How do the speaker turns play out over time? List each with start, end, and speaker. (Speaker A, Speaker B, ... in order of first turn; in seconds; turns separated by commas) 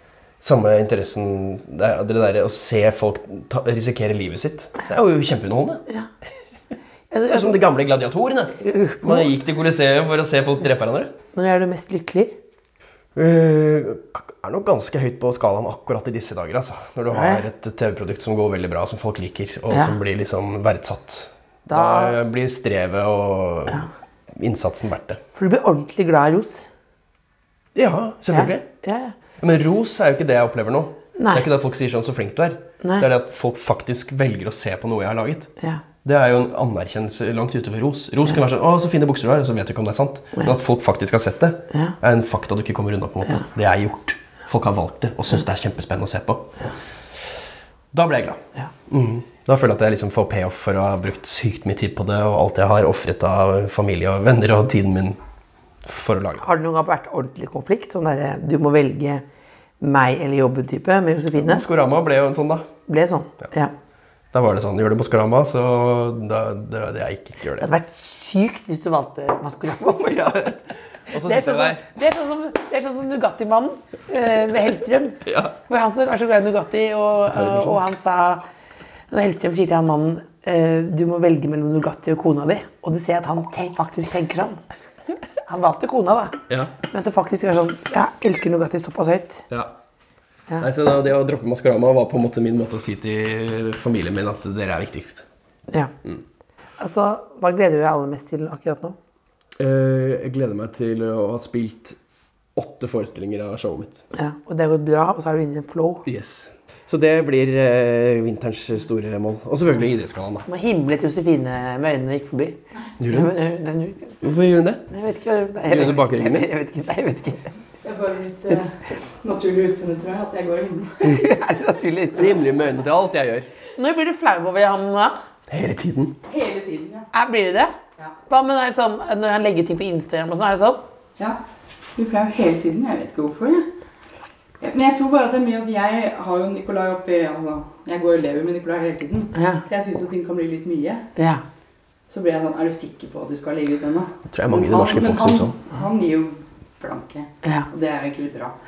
Speaker A: 0.4-5.8, Speaker B: 7.1-7.5, Speaker A: 7.3-11.1, Speaker B: 8.6-9.3, Speaker B: 11.3-12.3, Speaker A: 13.2-25.2, Speaker B: 17.1-17.4, Speaker B: 19.7-20.0, Speaker B: 21.7-22.2, Speaker B: 25.4-26.7, Speaker A: 27.8-28.7, Speaker B: 28.3-29.1, Speaker A: 29.4-35.5, Speaker B: 31.2-31.5, Speaker A: 36.0-46.7, Speaker A: 47.9-55.2, Speaker A: 55.8-56.5, Speaker B: 56.4-59.2, Speaker B: 59.8-61.6, Speaker A: 61.4-62.7, Speaker B: 62.9-63.7, Speaker A: 64.3-67.7, Speaker B: 67.6-70.5, Speaker A: 69.9-71.9, Speaker B: 71.1-78.4, Speaker A: 75.3-75.6, Speaker A: 77.3-77.8, Speaker B: 79.1-84.6, Speaker B: 85.5-86.4, Speaker A: 86.5-86.7, Speaker B: 86.9-89.5, Speaker A: 90.6-95.3, Speaker B: 96.8-99.0, Speaker A: 99.6-102.0, Speaker A: 102.6-104.0, Speaker B: 104.1-106.0, Speaker A: 106.1-110.5, Speaker B: 110.5-114.2, Speaker A: 113.0-113.4, Speaker A: 114.2-114.9, Speaker B: 114.9-117.5, Speaker A: 115.6-116.5, Speaker C: 117.8-121.2, Speaker B: 121.0-122.3, Speaker A: 122.2-123.5, Speaker B: 123.8-125.2, Speaker A: 125.5-126.2, Speaker C: 126.3-127.1, Speaker B: 127.1-127.7, Speaker B: 128.3-130.9, Speaker C: 132.0-133.7, Speaker C: 134.6-141.1, Speaker B: 139.3-139.6, Speaker B: 141.2-141.4, Speaker C: 142.1-148.6, Speaker A: 144.3-145.6